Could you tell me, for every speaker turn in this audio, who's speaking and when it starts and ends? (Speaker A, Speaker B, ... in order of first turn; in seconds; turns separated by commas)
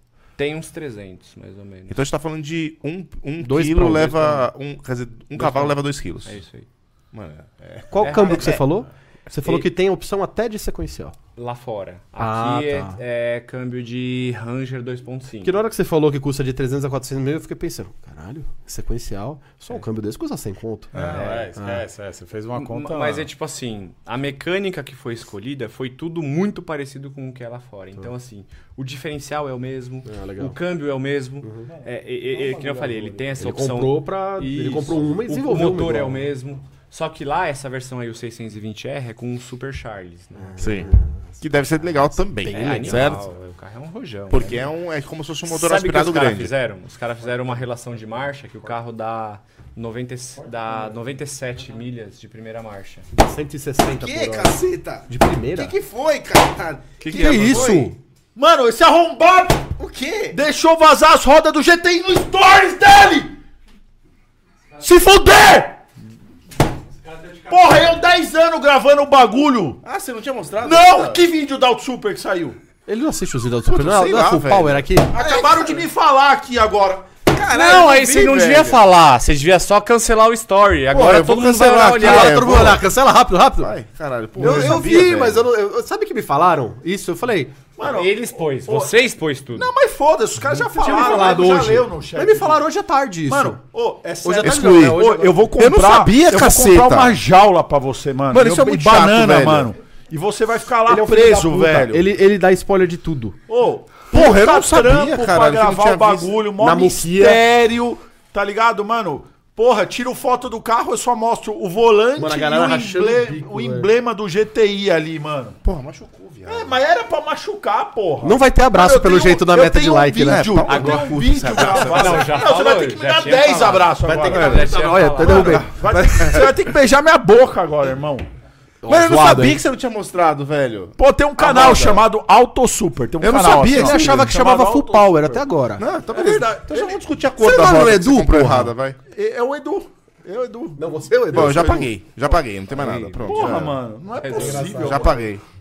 Speaker A: 0.4-2.0, Speaker B: 1.9-6.4, Speaker C: 3.4-4.5, Speaker A: 5.4-5.7, Speaker C: 5.4-5.7, Speaker A: 6.2-6.7, Speaker B: 7.1-8.7, Speaker C: 7.9-11.1, Speaker A: 8.0-8.7, Speaker A: 11.4-15.6, Speaker C: 12.2-13.0, Speaker C: 15.4-21.8, Speaker D: 20.9-23.3, Speaker A: 20.9-21.5, Speaker A: 22.6-40.8, Speaker C: 30.1-30.6, Speaker D: 31.7-33.3, Speaker C: 33.4-36.3, Speaker C: 40.4-41.2, Speaker B: 40.6-40.9, Speaker B: 41.4-43.2, Speaker C: 42.2-43.2, Speaker A: 42.5-44.7, Speaker B: 44.3-46.5, Speaker A: 45.5-53.1, Speaker D: 50.4-51.0, Speaker C: 53.1-55.8, Speaker B: 53.8-57.9, Speaker A: 57.0-57.8, Speaker C: 57.1-58.0, Speaker D: 58.4-59.8, Speaker B: 59.8-60.4, Speaker D: 60.3-63.4, Speaker D: 64.8-65.8, Speaker D: 67.3-69.8, Speaker B: 69.8-71.2, Speaker D: 70.6-72.6, Speaker C: 72.9-75.1, Speaker B: 73.7-75.9, Speaker D: 75.1-78.6, Speaker B: 77.3-78.8, Speaker A: 77.5-82.5, Speaker B: 80.9-82.8, Speaker C: 81.7-83.8, Speaker B: 83.6-85.5, Speaker C: 84.4-87.5, Speaker D: 84.4-85.0, Speaker D: 87.8-89.0, Speaker A: 87.8-89.7, Speaker D: 89.5-92.6, Speaker C: 90.4-93.6, Speaker D: 93.3-102.1, Speaker C: 94.2-95.5, Speaker B: 94.4-97.2, Speaker B: 98.3-99.7, Speaker C: 100.9-103.4, Speaker D: 103.5-115.6, Speaker B: 104.1-106.3, Speaker C: 106.6-107.4, Speaker C: 112.2-113.9, Speaker B: 115.6-116.7, Speaker D: 116.5-128.3, Speaker C: 118.2-121.1, Speaker B: 120.3-122.4, Speaker A: 121.6-125.7, Speaker C: 124.0-125.7, Speaker B: 124.3-126.6, Speaker C: 128.8-129.6, Speaker B: 128.9-132.0, Speaker D: 131.0-135.5, Speaker B: 133.2-134.3, Speaker C: 133.4-135.8, Speaker B: 135.8-139.0, Speaker D: 136.1-137.0, Speaker C: 137.4-138.8, Speaker D: 139.1-141.9, Speaker C: 140.8-141.9, Speaker B: 141.3-143.8, Speaker A: 142.7-143.6, Speaker D: 143.2-145.2, Speaker A: 144.2-144.6, Speaker C: 144.2-145.2, Speaker B: 144.7-145.4